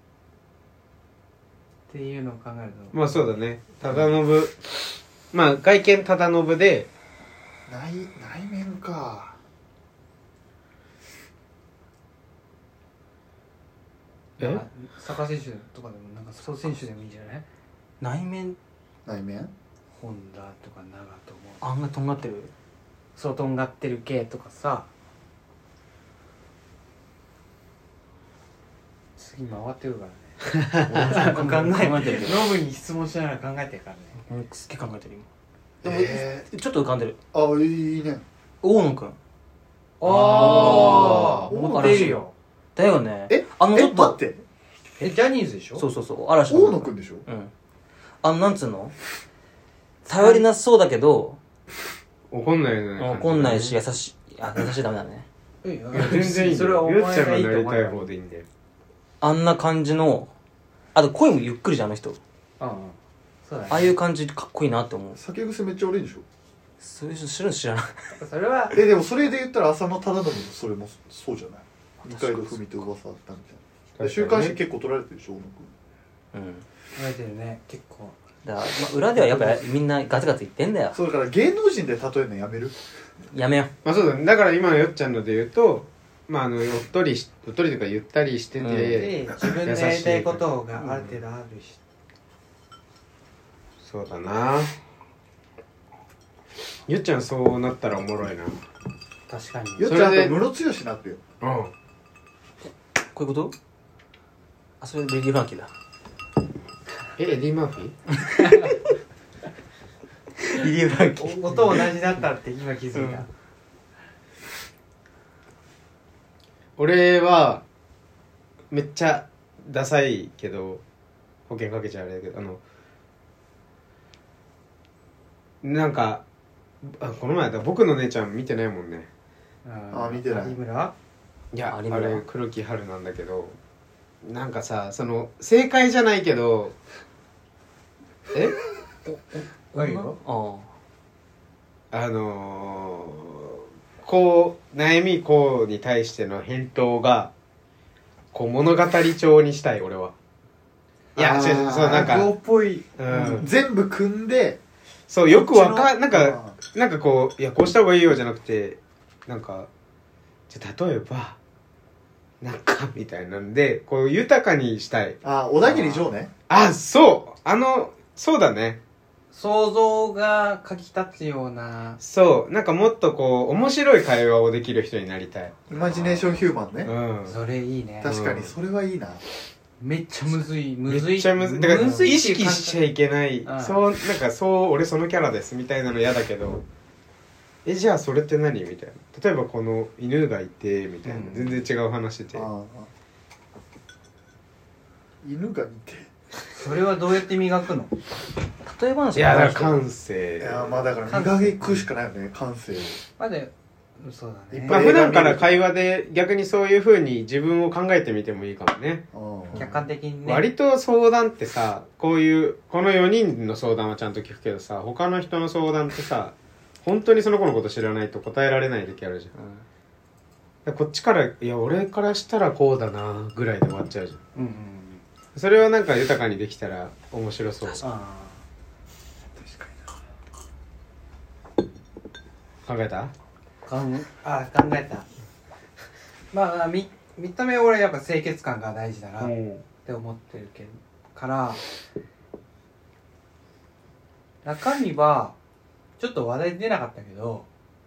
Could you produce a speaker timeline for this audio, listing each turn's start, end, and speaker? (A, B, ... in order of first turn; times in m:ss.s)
0:01.9-0:03.2 A
0:02.9-0:06.9 B
0:07.7-0:09.4 C
0:14.4-0:17.4 A
0:18.0-0:18.6 D
0:19.0-0:19.5 C
0:19.9-0:21.6 A
0:21.6-0:22.5 D
0:23.2-0:24.9 A
0:29.2-0:34.2 A
0:30.6-0:31.1 B
0:30.8-0:32.5 D
0:34.2-0:35.3 D
0:35.8-0:36.5 C
0:35.8-0:37.2 D
0:37.3-0:38.2 C
0:38.6-0:39.2 D
0:40.0-0:42.3 A
0:40.1-0:41.3 B
0:40.1-0:42.2 D
0:40.2-0:42.2 C
0:42.8-0:44.2 D
0:43.3-0:44.4 C
0:45.0-0:45.8 A
0:45.8-0:47.5 D
0:46.5-0:47.2 C
0:48.2-0:48.9 D
0:50.0-0:51.4 D
0:50.1-0:50.4 A
0:52.3-0:53.8 B
0:53.0-0:55.2 D
0:55.6-0:58.1 A
0:55.9-0:58.4 B
0:59.2-1:00.3 D
1:00.9-1:02.2 D
1:02.6-1:04.0 A
1:03.7-1:05.2 D
1:05.1-1:06.2 C
1:06.8-1:08.2 D
1:08.2-1:08.8 A
1:08.7-1:15.7 C
1:12.0-1:12.8 D
1:14.0-1:14.6 B
1:16.3-1:16.6 D
1:17.0-1:18.2 A
1:18.4-1:21.0 D
1:19.2-1:19.6 C
1:20.9-1:22.8 C
1:23.3-1:23.7 D
1:23.8-1:31.2 B
1:28.6-1:29.1 D
1:28.9-1:31.8 A
1:33.8-1:34.7 B
1:36.9-1:38.6 B
1:39.3-1:40.0 A
1:39.8-1:41.2 C
1:39.8-1:40.4 B
1:41.4-1:41.7 B
1:43.0-1:43.5 D
1:44.8-1:45.7 D
1:47.2-1:48.0 B
1:48.2-1:48.8 D
1:50.4-1:51.9 D
1:51.2-1:53.3 A
1:52.9-1:53.2 D
1:56.8-1:57.6 B
1:58.7-2:00.8 B
2:01.5-2:02.6 B
2:05.6-2:06.2 B
2:06.8-2:09.1 B
2:09.6-2:10.9 A
2:09.9-2:10.6 C
2:11.5-2:13.6 B
2:11.7-2:12.2 D
2:14.2-2:16.7 B
2:19.1-2:20.7 D
2:19.7-2:20.2 A
2:21.9-2:27.3 B
2:28.3-2:30.1 B
2:31.2-2:32.3 B
2:31.2-2:34.6 C
2:31.9-2:32.8 A
2:33.0-2:33.5 B
2:35.1-2:39.7 B
2:35.3-2:36.6 C
2:40.5-2:41.4 B
2:42.4-2:45.2 B
2:45.2-2:46.3 C
2:46.5-2:48.8 B
2:49.3-2:52.0 A
2:52.0-2:55.7 B
2:55.7-2:56.9 C
2:56.8-2:57.4 B
2:57.2-2:58.1 A
2:58.0-2:59.2 C
2:58.0-2:58.5 B
2:59.8-3:02.8 A
3:00.9-3:06.6 B
3:03.4-3:03.8 A
3:07.6-3:12.5 B
3:11.0-3:11.6 A
3:12.3-3:12.9 C
3:15.2-3:16.1 C
3:16.6-3:17.9 A
3:18.6-3:19.8 D
3:19.1-3:20.9 B
3:20.4-3:23.0 C
3:21.1-3:21.5 A
3:23.2-3:24.9 A
3:24.5-3:25.6 C
3:24.7-3:29.0 B
3:29.1-3:29.6 C
3:29.5-3:30.5 A
3:30.2-3:39.3 B
3:39.3-3:39.6 D
3:40.6-3:44.2 B
3:44.3-3:45.0 A
3:45.3-3:47.8 B
3:47.8-3:48.4 A
3:49.4-3:49.8 C
3:52.6-3:53.1 B
3:53.6-3:55.1 A
3:56.3-3:59.3 A
3:59.2-3:59.6 B
3:59.8-4:01.6 A
4:04.4-4:05.4 A
4:06.0-4:07.5 A